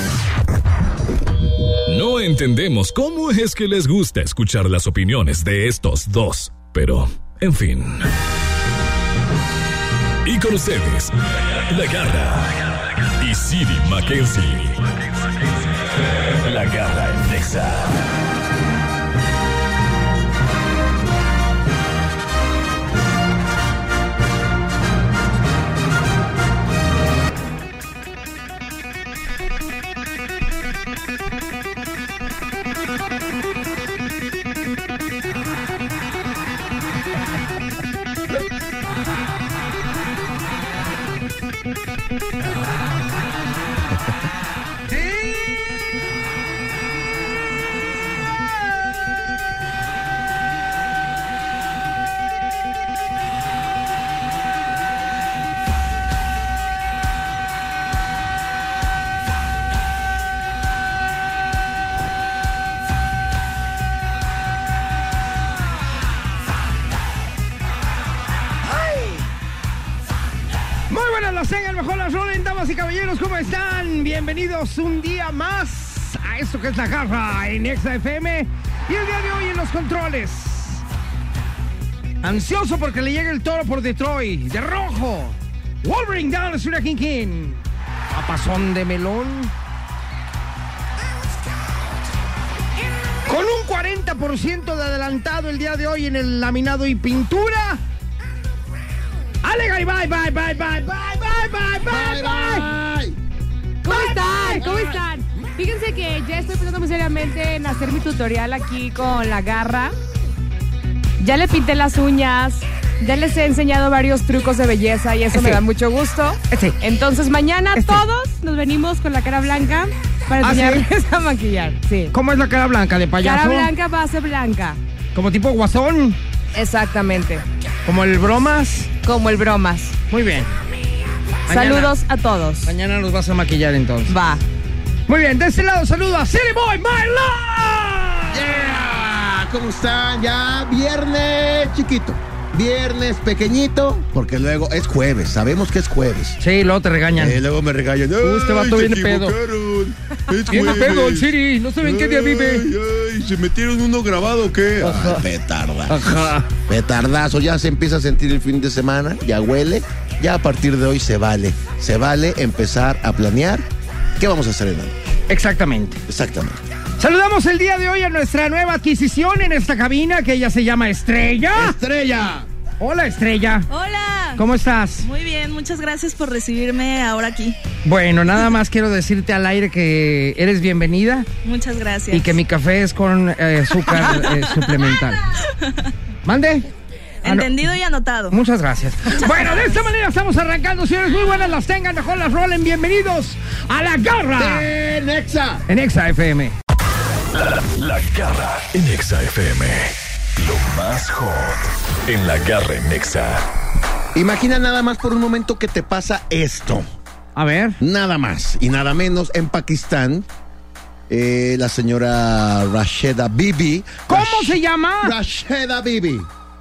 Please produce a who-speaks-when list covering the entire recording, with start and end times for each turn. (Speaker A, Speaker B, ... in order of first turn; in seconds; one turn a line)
Speaker A: 1.9-8.1
Speaker A: 10.2-18.0
Speaker B: 68.9-69.2
Speaker B: 70.9-80.8
Speaker B: 82.2-89.5
Speaker B: 93.2-97.8
Speaker B: 99.4-102.7
Speaker C: 101.8-103.2
Speaker D: 103.8-109.9
Speaker B: 103.8-104.9
Speaker D: 111.2-122.1
Speaker B: 115.3-115.6
Speaker B: 116.5-116.8
Speaker B: 117.7-118.0
Speaker B: 120.4-120.8
Speaker B: 122.1-123.7
Speaker D: 123.2-124.8
Speaker B: 125.1-126.2
Speaker D: 126.5-127.4
Speaker B: 127.8-128.9
Speaker D: 129.0-129.9
Speaker B: 130.1-130.5
Speaker B: 131.4-131.9
Speaker D: 131.5-132.7
Speaker B: 132.6-134.1
Speaker D: 134.1-134.4
Speaker B: 135.1-138.4
Speaker C: 138.3-146.4
Speaker B: 146.4-147.4
Speaker C: 147.1-163.7
Speaker B: 148.2-149.4
Speaker B: 150.5-152.7
Speaker B: 154.8-155.2
Speaker B: 155.9-156.5
Speaker C: 164.2-164.9
Speaker B: 165.3-166.0
Speaker C: 166.1-166.6
Speaker B: 167.0-171.8
Speaker C: 171.5-172.5
Speaker B: 172.8-173.7
Speaker E: 173.7-174.4
Speaker B: 174.3-175.1
Speaker E: 175.0-177.6
Speaker B: 177.8-181.3
Speaker E: 181.4-182.4
Speaker B: 182.1-185.2
Speaker E: 183.9-184.7
Speaker E: 185.5-185.8
Speaker B: 186.2-186.7
Speaker B: 187.2-187.6
Speaker E: 187.2-188.4
Speaker B: 188.3-194.7
Speaker C: 194.3-195.7
Speaker B: 195.7-196.5
Speaker A: 197.3-203.4
Speaker C: 204.1-206.8
Speaker B: 207.3-207.8
Speaker C: 207.8-210.3
Speaker C: 211.1-216.3
Speaker B: 214.1-215.2